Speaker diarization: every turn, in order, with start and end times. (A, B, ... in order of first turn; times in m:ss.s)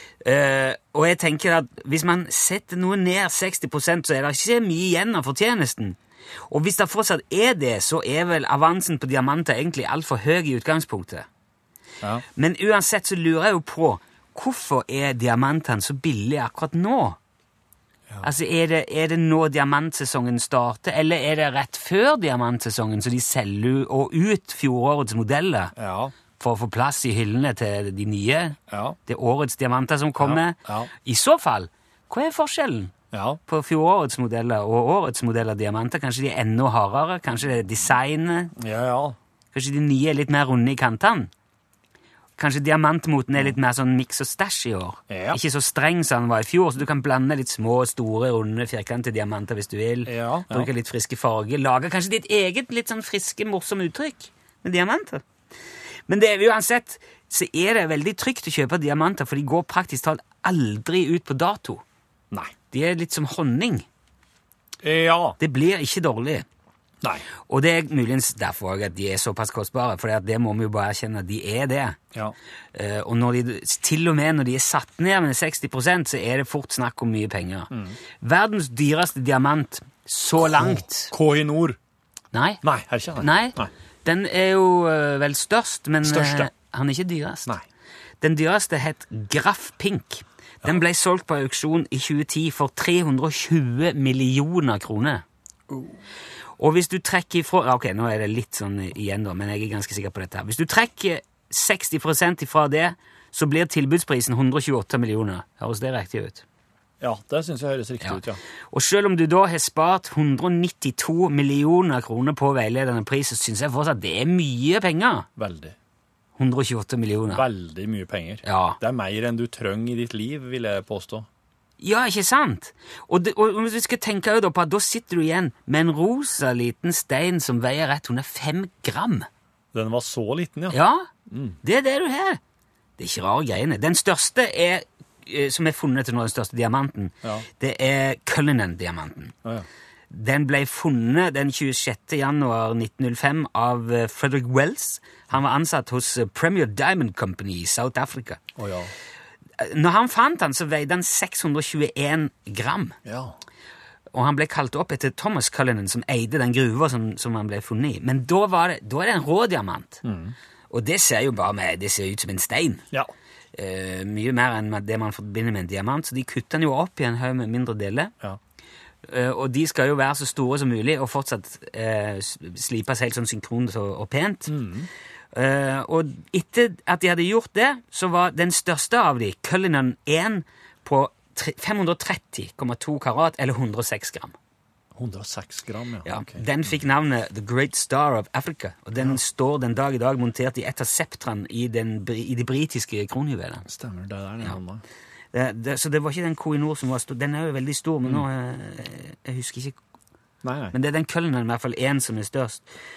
0:00.2-0:06.0 A
0:06.5-0:11.3 A
0:12.3-0:17.2 A
0:18.2-0:25.7 A
0:25.8-0:26.1 B
0:26.4-0:32.9 A
0:28.7-0:29.0 B
0:30.2-0:30.9 B
0:33.1-0:33.4 B
0:33.5-0:38.5 A
0:38.6-0:39.2 B
0:39.5-0:41.3 A
0:42.4-0:55.2 A
0:45.1-0:45.4 B
0:50.0-0:50.7 B
0:56.1-1:01.8 A
1:02.7-1:03.8 A
1:04.8-1:05.4 B
1:05.4-1:06.4 A
1:07.5-1:12.0 A
1:12.7-1:21.1 A
1:17.7-1:18.0 B
1:20.4-1:21.8 B
1:22.3-1:22.6 A
1:22.6-1:23.7 B
1:23.2-1:27.5 A
1:26.0-1:26.5 B
1:28.2-1:35.2 A
1:35.7-1:36.0 B
1:36.6-1:46.4 A
1:47.0-1:48.4 B
1:48.0-1:55.3 A
1:55.4-1:55.7 B
1:56.4-1:57.4 A
1:57.3-2:01.3 B
1:58.4-1:58.8 A
2:01.8-2:09.3 A
2:09.7-2:10.8 B
2:10.7-2:11.1 A
2:11.3-2:11.6 B
2:11.6-2:12.4 A
2:13.0-2:19.3 A
2:20.1-2:28.4 A
2:28.6-2:28.9 B
2:29.6-2:33.0 A
2:33.0-2:33.3 B
2:34.1-2:40.0 A
2:40.0-2:40.3 B
2:40.7-2:42.8 A
2:43.5-2:48.1 A
2:49.0-2:54.5 A
2:54.5-2:54.9 B
2:55.3-3:04.3 A
3:04.9-3:06.5 B
3:06.0-3:13.6 A
3:13.6-3:14.8 B
3:15.3-3:19.8 A
3:20.4-3:20.7 B
3:20.7-3:22.6 A